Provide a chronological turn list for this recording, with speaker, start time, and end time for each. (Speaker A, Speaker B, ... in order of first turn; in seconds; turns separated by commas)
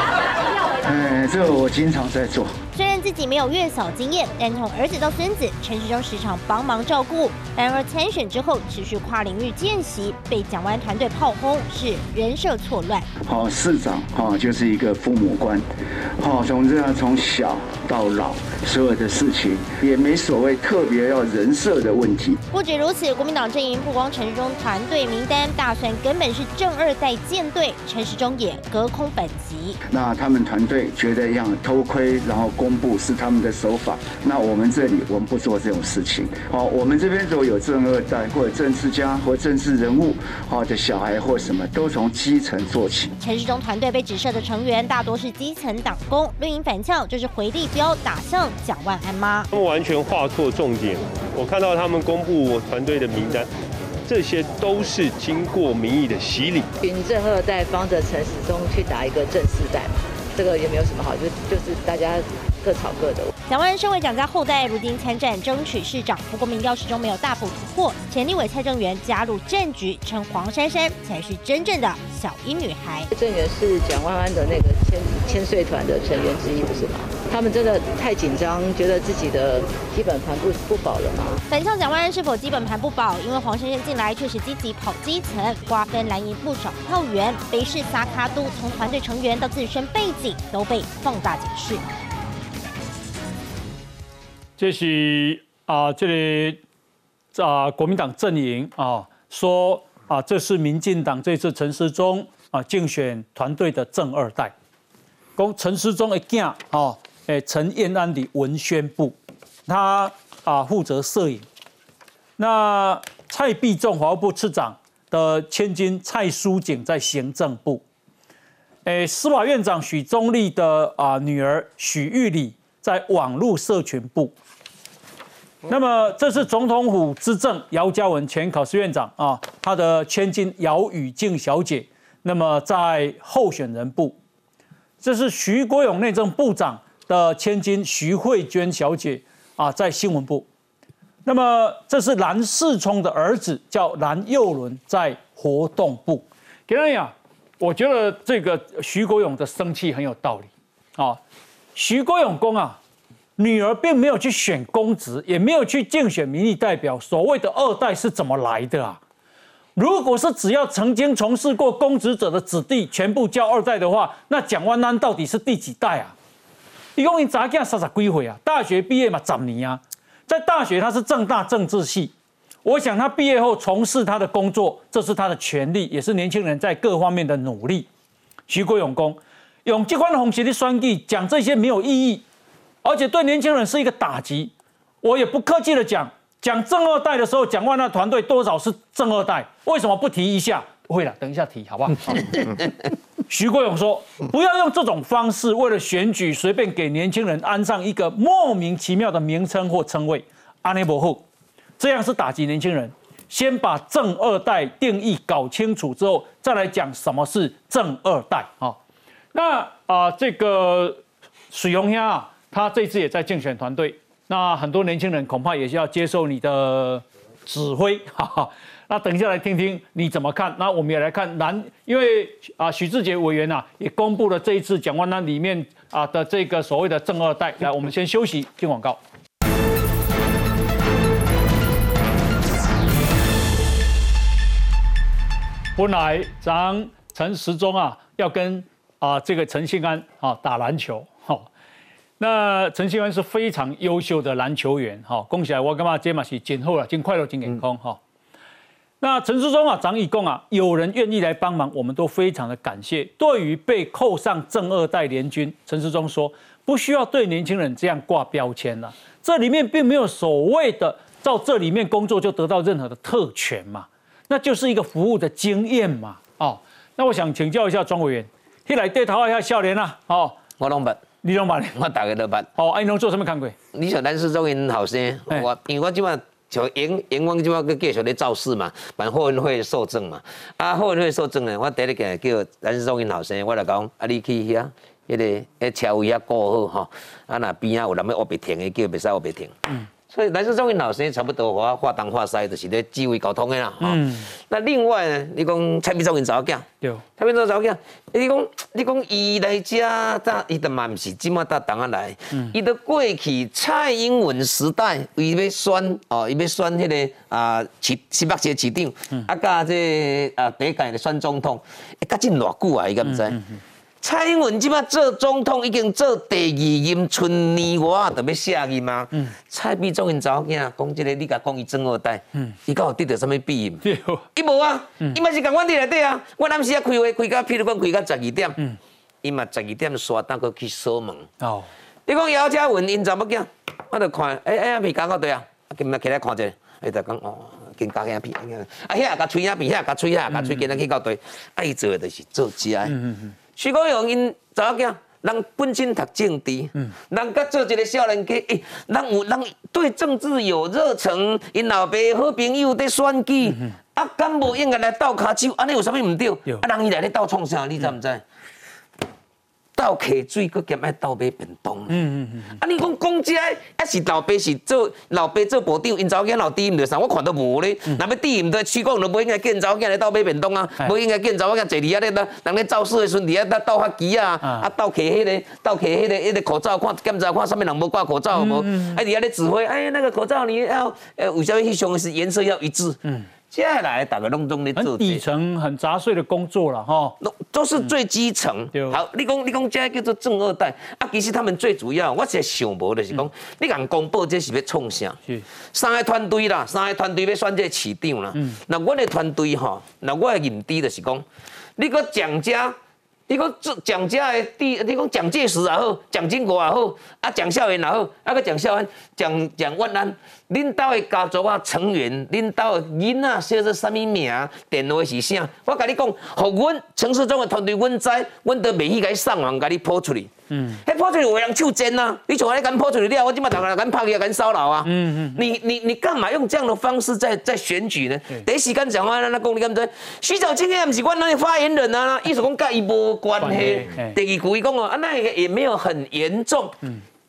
Speaker A: 0.8-2.6, Speaker B: 2.7-13.1, Speaker A: 13.2-15.6, Speaker A: 16.2-22.4, Speaker B: 22.5-29.8, Speaker A: 29.9-43.1, Speaker B: 43.2-49.5, Speaker C: 49.5-53.5, Speaker C: 54.0-56.7, Speaker D: 56.8-63.3, Speaker B: 63.5-73.1, Speaker D: 73.1-81.4, Speaker B: 81.5-91.8, Speaker E: 94.6-96.6, Speaker E: 97.3-104.5, Speaker E: 105.4-111.5, Speaker E: 112.4-117.8, Speaker E: 118.9-124.3, Speaker E: 125.7-134.2, Speaker E: 135.0-140.4, Speaker E: 141.2-151.2, Speaker E: 151.7-152.8, Speaker E: 153.4-159.0, Speaker E: 159.8-166.1, Speaker E: 166.9-172.1, Speaker E: 172.6-177.9, Speaker E: 178.5-182.2, Speaker E: 182.8-192.7, Speaker E: 193.3-201.2, Speaker E: 201.8-208.8, Speaker E: 209.3-229.0, Speaker E: 235.8-241.5, Speaker E: 242.2-248.0, Speaker E: 249.0-270.4, Speaker F: 270.6-271.0, Speaker E: 271.2-271.8, Speaker F: 271.7-272.5, Speaker E: 272.6-273.6, Speaker F: 273.7-289.6, Speaker F: 290.1-313.4, Speaker E: 293.8-294.3, Speaker E: 313.1-313.6, Speaker F: 314.0-323.8, Speaker E: 323.8-324.2, Speaker F: 324.3-328.6, Speaker F: 329.2-331.3, Speaker E: 331.4-331.7, Speaker F: 332.1-358.2, Speaker E: 342.9-343.3, Speaker F: 359.7-383.0, Speaker E: 361.9-362.6, Speaker E: 374.4-374.7, Speaker E: 378.3-379.0, Speaker F: 383.5-385.2, Speaker E: 384.8-387.2, Speaker F: 387.2-395.2, Speaker F: 395.7-401.2, Speaker F: 401.8-402.8, Speaker F: 403.3-436.8, Speaker E: 420.5-420.8, Speaker E: 424.8-425.4, Speaker E: 433.4-434.2